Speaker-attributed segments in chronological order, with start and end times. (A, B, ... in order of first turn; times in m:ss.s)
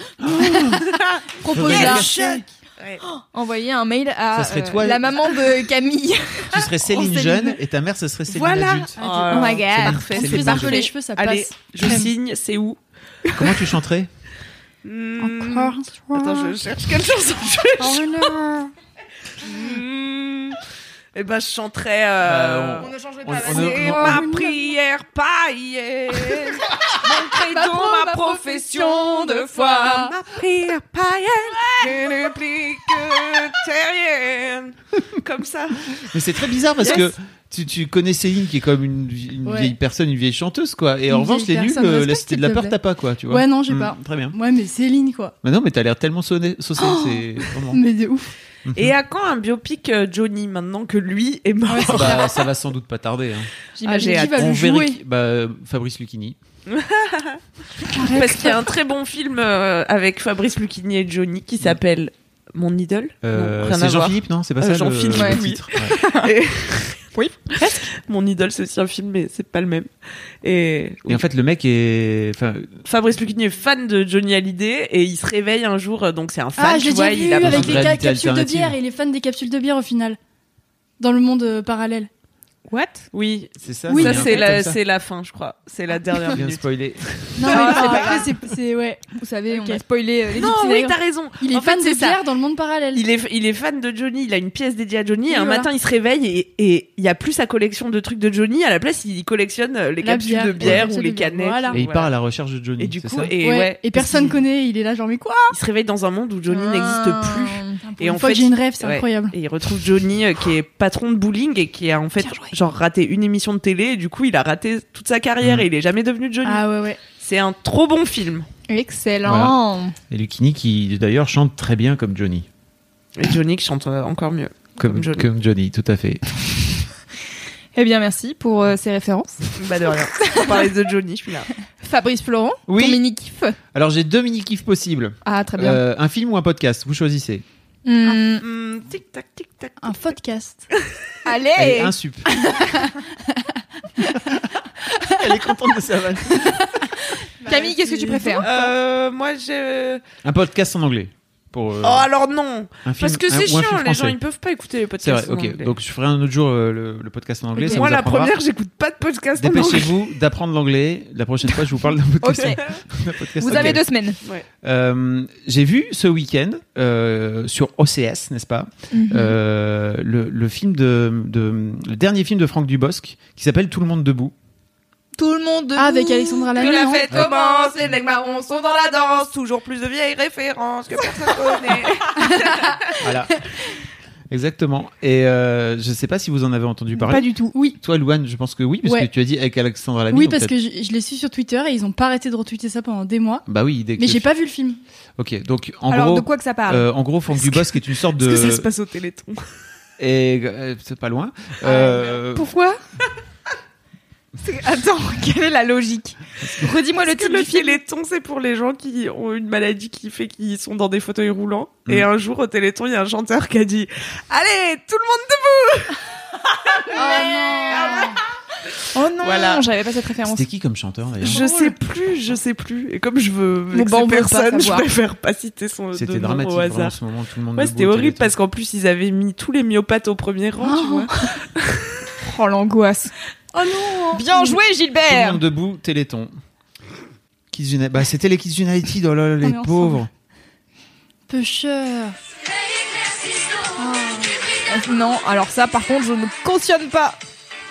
0:00.2-0:00.9 A
0:00.8-0:03.0 B
0:01.4-0:02.1 C
0:01.5-0:02.4 A
0:03.1-0:06.6 D
0:04.3-0:05.2 A
0:06.5-0:09.0 A
0:06.9-0:07.4 C
0:08.3-0:12.8 B
0:09.0-0:12.1 C
0:09.3-0:10.1 D
0:09.7-0:10.8 A
0:13.3-0:14.1 A
0:14.8-0:18.3 B
0:15.2-0:16.3 C
0:17.8-0:18.7 C
0:19.4-0:20.6 B
0:21.1-0:36.0 B
0:22.2-0:24.2 A
0:22.8-0:24.2 D
0:24.0-0:24.6 C
0:27.2-0:30.1 C
0:36.1-0:44.4 A
0:39.4-0:39.7 C
0:41.1-0:42.8 C
0:43.3-0:45.4 C
0:45.4-0:47.8 A
0:46.8-0:48.3 C
0:48.7-0:48.9 A
0:48.7-0:52.4 B
0:51.7-0:52.3 C
0:51.8-0:53.5 A
0:53.8-0:54.3 D
0:53.8-0:55.0 C
0:53.9-0:54.6 B
0:54.3-0:56.4 A
0:56.7-0:57.4 B
0:57.9-0:58.6 C
0:58.0-1:07.0 B
1:03.2-1:05.9 A
1:05.1-1:06.3 D
1:07.1-1:07.4 D
1:07.6-1:09.9 B
1:10.4-1:11.2 B
1:11.1-1:12.8 A
1:12.8-1:17.9 B
1:16.6-1:20.2 C
1:17.4-1:18.8 A
1:21.0-1:22.1 C
1:22.7-1:23.1 D
1:23.1-1:26.6 B
1:23.6-1:24.8 A
1:23.9-1:24.4 C
1:26.3-1:27.9 A
1:27.4-1:29.8 C
1:27.5-1:28.2 B
1:27.6-1:28.2 D
1:29.2-1:31.0 D
1:30.4-1:32.2 B
1:31.4-1:33.0 C
1:32.9-1:42.1 B
1:35.3-1:35.7 C
1:40.0-1:41.8 C
1:41.7-1:43.3 A
1:42.8-1:44.4 B
1:43.4-1:45.6 C
1:45.5-1:58.5 B
1:46.5-1:47.8 D
1:47.8-1:49.4 C
1:52.2-1:52.5 D
1:55.4-1:55.7 A
1:56.4-1:57.0 C
1:58.7-2:00.0 D
1:59.2-1:59.6 A
2:00.1-2:02.5 A
2:03.2-2:05.3 B
2:04.8-2:06.8 A
2:07.7-2:09.6 D
2:09.6-2:11.5 B
2:11.8-2:13.6 D
2:12.7-2:13.0 A
2:13.7-2:17.4 A
2:15.2-2:15.8 D
2:17.8-2:18.4 D
2:18.4-2:20.2 B
2:19.8-2:20.7 C
2:21.2-2:21.9 D
2:21.6-2:22.3 A
2:22.6-2:23.4 C
2:24.1-2:24.4 A
2:25.0-2:26.7 A
2:27.4-2:28.7 C
2:27.4-2:28.5 D
2:28.4-2:30.0 B
2:30.2-2:32.1 A
2:31.8-2:35.7 B
2:32.8-2:34.2 A
2:35.0-2:38.4 A
2:37.7-2:40.1 B
2:39.4-2:43.8 A
2:42.2-2:42.6 D
2:43.4-2:44.2 D
2:43.5-2:44.4 B
2:44.6-2:54.3 A
2:48.9-2:49.4 D
2:55.2-2:57.9 D
2:55.8-2:57.2 C
2:56.6-3:02.8 B
3:02.2-3:02.6 C
3:03.0-3:03.3 A
3:04.3-3:10.5 A
3:07.0-3:07.8 C
3:10.1-3:13.4 C
3:13.5-3:14.3 A
3:14.0-3:14.8 C
3:15.2-3:18.7 A
3:15.9-3:16.9 D
3:18.1-3:19.4 B
3:20.0-3:22.5 A
3:21.6-3:22.8 D
3:24.4-3:27.8 D
3:27.0-3:36.0 B
3:36.6-3:38.2 B
3:36.9-3:38.2 C
3:36.9-3:38.1 D
3:38.9-3:40.4 D
3:39.2-3:39.6 B
3:40.2-3:41.4 A
3:41.2-3:41.8 C
3:41.2-3:46.9 B
3:43.7-3:44.8 D
3:45.9-3:48.3 A
3:47.6-3:51.8 B
3:50.6-3:51.4 C
3:52.2-3:53.1 D
3:53.5-3:54.6 C
3:54.1-3:55.4 D
3:55.1-3:56.3 A
3:57.5-4:00.1 A
3:59.4-4:00.1 C
4:01.3-4:02.1 C
4:03.8-4:04.3 C
4:04.7-4:07.2 D